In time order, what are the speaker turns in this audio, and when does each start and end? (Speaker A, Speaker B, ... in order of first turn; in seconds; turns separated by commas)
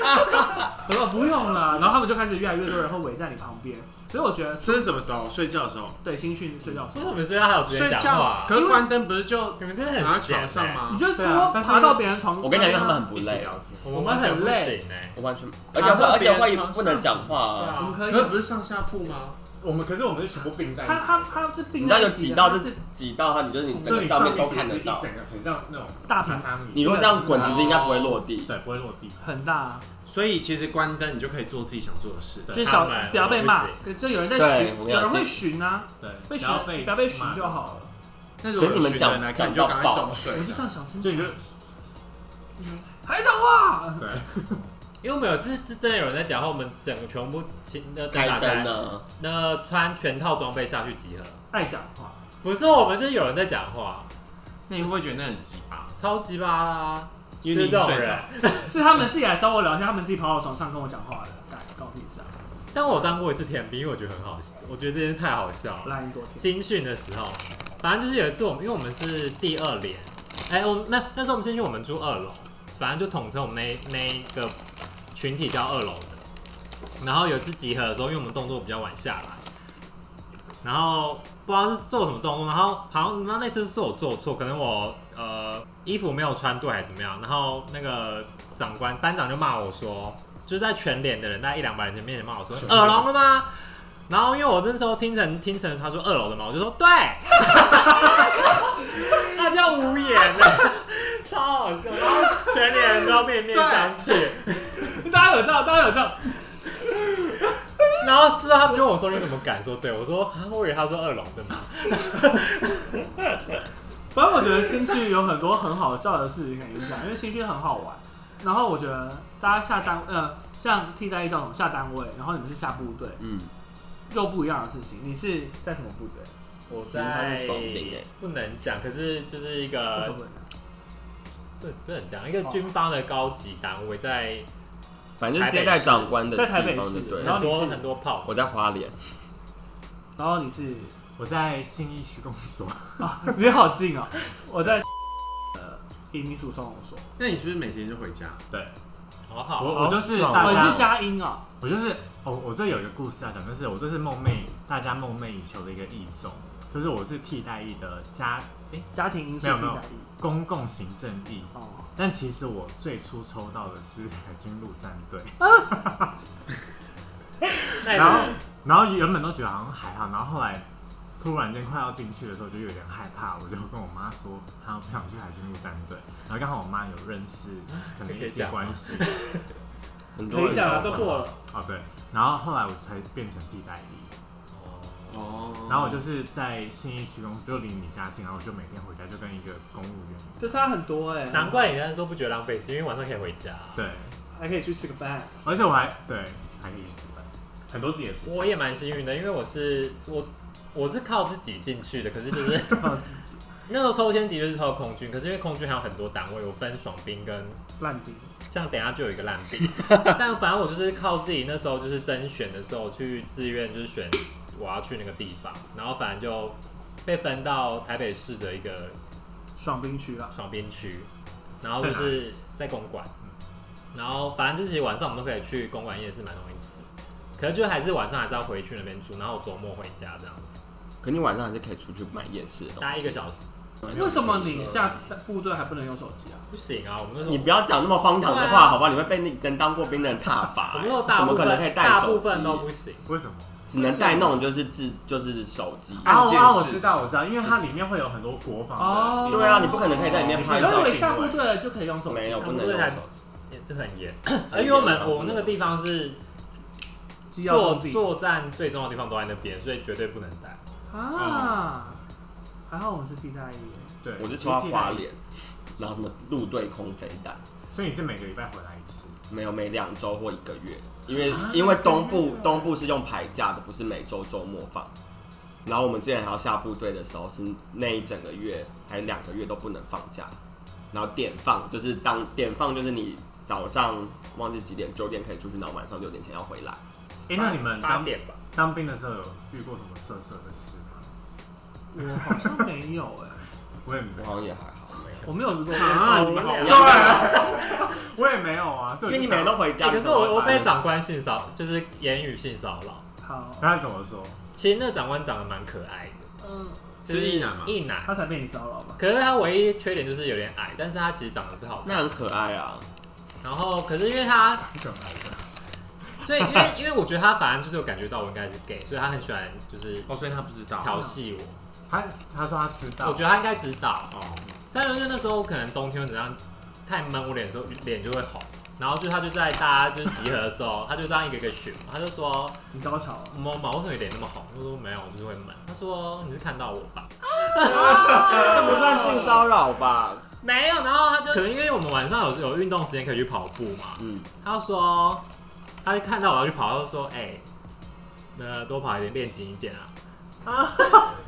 Speaker A: 0.2-0.6, Speaker B: 0.8-4.9, Speaker C: 4.6-6.0, Speaker B: 6.0-7.2, Speaker D: 6.9-8.6, Speaker C: 7.6-11.1, Speaker B: 8.5-8.9, Speaker D: 9.6-10.8, Speaker B: 10.9-13.1, Speaker E: 11.1-12.0, Speaker A: 12.4-13.6, Speaker E: 13.3-13.6, Speaker D: 13.8-15.2, Speaker B: 13.8-14.8, Speaker A: 15.2-17.8, Speaker C: 15.7-17.3, Speaker D: 17.5-18.1, Speaker B: 17.8-18.4, Speaker C: 18.0-19.4, Speaker E: 19.6-21.4, Speaker B: 20.8-22.8, Speaker A: 21.8-25.1, Speaker B: 23.7-24.6, Speaker E: 23.8-29.2, Speaker B: 26.1-27.8, Speaker A: 26.7-28.5, Speaker C: 27.3-28.2, Speaker B: 29.2-29.9, Speaker C: 30.0-32.5, Speaker B: 32.5-37.9, Speaker D: 32.6-33.8, Speaker A: 34.3-35.4, Speaker E: 36.0-37.8, Speaker C: 38.4-40.6, Speaker A: 38.5-40.2, Speaker B: 40.3-41.3, Speaker E: 41.0-41.5, Speaker E: 42.6-42.8, Speaker B: 43.0-44.2, Speaker E: 44.0-44.6, Speaker D: 45.0-51.4, Speaker A: 48.1-49.0, Speaker B: 51.5-52.2, Speaker D: 52.4-54.1, Speaker C: 54.7-55.9, Speaker D: 56.0-58.8, Speaker C: 57.4-58.3, Speaker B: 58.6-62.3, Speaker D: 62.7-74.5, Speaker B: 65.8-66.5, Speaker D: 75.1-76.2, Speaker D: 77.0-79.4, Speaker D: 80.6-104.8, Speaker E: 92.6-93.0, Speaker C: 103.5-104.2, Speaker B: 104.8-106.7, Speaker D: 108.0-112.8, Speaker B: 114.1-123.2, Speaker A: 123.2-123.5, Speaker B: 124.1-126.3, Speaker D: 126.7-130.2, Speaker A: 126.7-128.1, Speaker B: 129.9-130.5, Speaker D: 131.6-134.5, Speaker A: 135.2-137.5, Speaker D: 135.3-136.1, Speaker B: 136.3-137.8, Speaker D: 137.2-138.3, Speaker A: 138.2-139.0, Speaker B: 140.2-140.9, Speaker E: 141.2-143.3, Speaker B: 143.0-144.8, Speaker B: 145.6-147.1, Speaker C: 147.2-148.4, Speaker E: 148.5-148.8, Speaker D: 149.3-150.0, Speaker E: 149.6-151.0, Speaker A: 149.7-150.8, Speaker B: 150.3-151.4, Speaker E: 151.6-158.9, Speaker B: 158.9-160.1, Speaker E: 159.4-166.1, Speaker B: 161.5-161.9, Speaker D: 167.8-168.4, Speaker E: 167.8-170.7, Speaker E: 171.2-179.1, Speaker D: 177.8-179.4, Speaker A: 180.2-181.2, Speaker B: 180.3-181.4, Speaker E: 180.5-184.1, Speaker D: 184.5-185.5, Speaker C: 185.1-186.0, Speaker E: 185.7-190.5, Speaker B: 190.4-191.7, Speaker D: 191.3-193.8, Speaker E: 193.7-194.1, Speaker B: 194.3-195.3, Speaker E: 195.4-198.5, Speaker D: 198.2-202.9, Speaker B: 202.7-203.4, Speaker D: 203.7-207.6, Speaker B: 207.8-208.3, Speaker D: 208.5-219.0, Speaker B: 219.6-220.3, Speaker D: 220.3-221.1, Speaker D: 221.6-223.1, Speaker E: 221.8-222.2, Speaker D: 223.9-230.6, Speaker A: 231.0-233.2, Speaker D: 232.8-233.5, Speaker A: 233.8-234.9, Speaker B: 233.9-236.5, Speaker D: 236.5-237.5, Speaker A: 237.2-242.7, Speaker D: 238.2-238.8, Speaker D: 240.7-243.1, Speaker E: 243.1-243.6, Speaker A: 243.7-246.2, Speaker B: 243.8-244.2, Speaker C: 246.0-246.8, Speaker E: 246.0-251.4, Speaker B: 248.8-252.7, Speaker A: 249.3-251.0, Speaker A: 252.1-253.1, Speaker D: 252.4-256.2, Speaker A: 254.5-255.6, Speaker B: 257.3-258.0, Speaker D: 257.4-260.6, Speaker B: 260.9-262.0, Speaker E: 261.2-261.5, Speaker B: 262.7-264.0, Speaker E: 264.0-265.1, Speaker A: 264.2-267.4, Speaker E: 267.7-269.2, Speaker A: 269.3-274.9, Speaker E: 271.1-272.7, Speaker A: 275.6-280.4, Speaker A: 280.9-286.8, Speaker E: 287.3-291.1, Speaker D: 287.3-288.4, Speaker B: 291.9-293.4, Speaker E: 292.1-292.6, Speaker E: 293.8-294.3, Speaker A: 294.2-295.3, Speaker B: 295.2-297.2, Speaker C: 295.7-297.1, Speaker D: 295.9-297.7, Speaker A: 296.6-297.6, Speaker E: 296.6-299.6, Speaker A: 299.1-300.7, Speaker D: 299.8-303.0, Speaker B: 303.2-303.7, Speaker E: 303.6-304.4, Speaker D: 304.5-306.3, Speaker B: 306.4-306.8, Speaker D: 307.0-308.1, Speaker C: 307.1-307.8, Speaker B: 308.0-309.0, Speaker D: 309.0-312.1, Speaker A: 311.8-312.9, Speaker D: 313.4-314.7, Speaker E: 314.7-315.5, Speaker D: 316.2-320.1, Speaker C: 320.1-321.0, Speaker D: 320.8-321.6, Speaker E: 321.9-323.2, Speaker D: 323.0-324.1, Speaker C: 324.1-324.4, Speaker D: 324.7-332.6, Speaker B: 332.7-333.4, Speaker D: 333.3-339.4, Speaker A: 337.6-340.2, Speaker D: 340.4-345.2, Speaker A: 344.0-344.2, Speaker D: 345.8-347.4, Speaker D: 348.3-349.9, Speaker D: 350.5-351.1